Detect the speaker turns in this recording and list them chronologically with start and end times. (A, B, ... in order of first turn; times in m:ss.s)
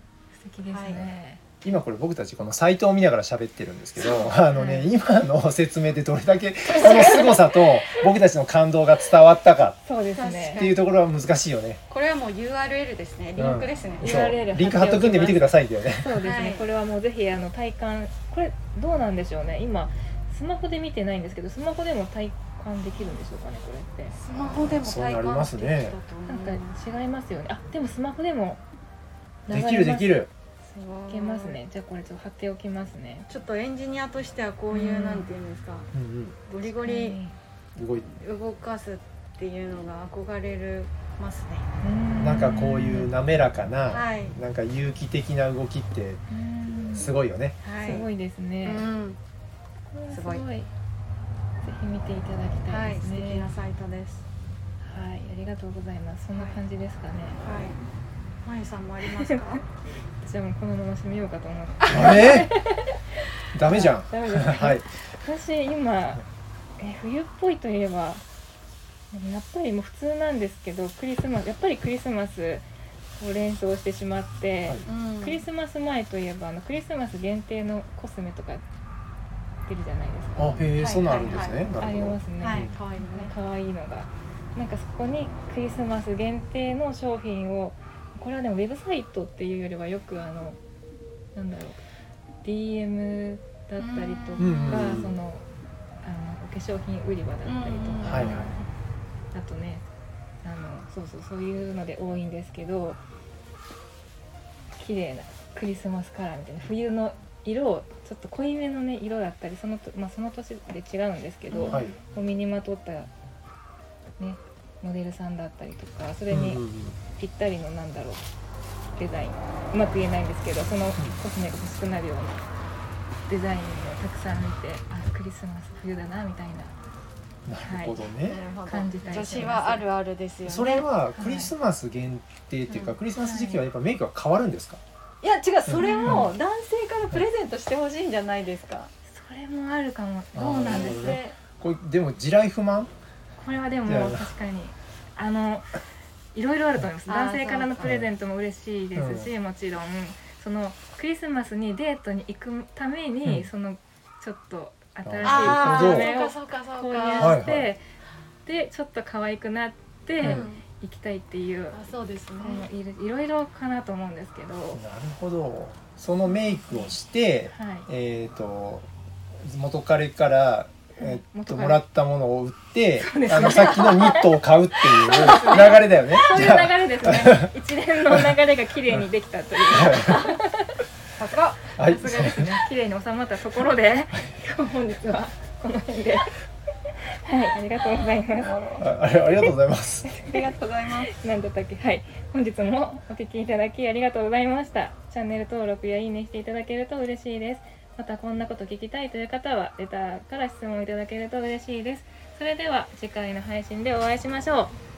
0:00.3-0:01.4 A
0:00.7-0:01.0 B
0:01.6-0:09.8 C
0:04.0-0:04.3 B
0:04.5-0:04.9 A
0:06.8-0:07.1 A
0:09.8-0:10.7 A
0:10.1-0:10.8 B
0:10.5-0:11.8 C
0:11.9-0:14.3 B
0:13.4-0:16.2 C
0:14.0-0:24.1 A
0:16.2-0:16.7 B
0:24.1-0:26.7 B
0:24.8-0:25.9 C
0:26.3-0:28.6 A
0:29.5-0:30.2 A
0:29.5-0:30.3 C
0:30.7-0:31.6 B
0:31.1-0:33.3 A
0:33.3-0:35.9 B
0:34.7-0:35.3 A
0:35.9-0:36.4 C
0:36.5-0:37.2 B
0:36.6-0:37.4 A
0:37.8-0:38.1 C
0:38.2-0:41.7 B
0:41.8-0:43.2 A
0:42.2-0:46.2 C
0:43.9-0:44.4 B
0:46.3-0:47.1 A
0:46.9-0:47.6 C
0:47.6-0:48.0 B
0:47.8-0:48.8 A
0:48.6-0:49.2 B
0:49.9-0:50.7 A
0:50.1-0:50.4 B
0:51.6-0:53.5 A
0:52.7-0:54.2 B
0:54.8-0:57.4 A
0:57.4-0:57.8 B
0:58.4-0:59.6 B
1:00.2-1:03.0 A
1:01.9-1:02.5 C
1:03.5-1:04.8 C
1:03.6-1:06.2 A
1:06.8-1:08.2 A
1:09.1-1:12.6 A
1:13.2-1:18.6 A
1:14.8-1:15.4 B
1:19.6-1:20.6 A
1:20.4-1:22.7 C
1:20.8-1:21.7 B
1:21.8-1:30.6 A
1:22.4-1:23.3 B
1:31.3-1:31.8 A
1:32.4-1:35.4 A
1:33.8-1:35.0 B
1:34.4-1:35.2 C
1:36.0-1:38.5 A
1:37.4-1:38.6 B
1:38.0-1:38.5 C
1:39.3-1:39.8 A
1:40.4-1:43.0 A
1:44.8-1:53.1 A
1:51.5-1:51.9 B
1:51.7-1:52.0 C
1:54.2-1:58.2 A
1:56.3-1:57.0 C
1:58.9-2:02.5 A
2:03.3-2:06.7 A
2:07.4-2:08.4 C
2:07.6-2:08.0 A
2:08.2-2:10.9 B
2:08.6-2:09.8 A
2:10.4-2:14.8 C
2:11.2-2:11.5 A
2:12.7-2:13.0 B
2:13.2-2:13.6 A
2:15.2-2:18.9 B
2:15.6-2:16.3 C
2:15.8-2:16.3 A
2:19.0-2:21.2 A
2:20.3-2:22.9 C
2:20.3-2:21.4 B
2:23.3-2:25.7 A
2:23.8-2:24.3 C
2:26.3-2:37.8 A
2:27.0-2:27.8 B
2:27.8-2:28.1 C
2:28.9-2:29.3 C
2:35.0-2:36.1 C
2:35.2-2:37.4 B
2:37.1-2:37.7 C
2:38.4-2:44.8 A
2:40.2-2:40.5 C
2:40.2-2:40.6 B
2:41.7-2:42.7 B
2:44.7-2:48.9 C
2:46.3-2:46.9 A
2:47.5-2:47.9 A
2:49.4-2:57.5 C
2:51.0-2:51.8 A
2:53.0-2:54.3 A
2:54.9-3:00.7 A
2:59.6-3:00.3 C
3:01.2-3:01.7 B
3:01.8-3:02.5 C
3:01.8-3:06.4 A
3:07.2-3:08.5 A
3:07.8-3:08.9 B
3:08.8-3:10.1 C
3:10.2-3:11.1 B
3:11.1-3:24.7 A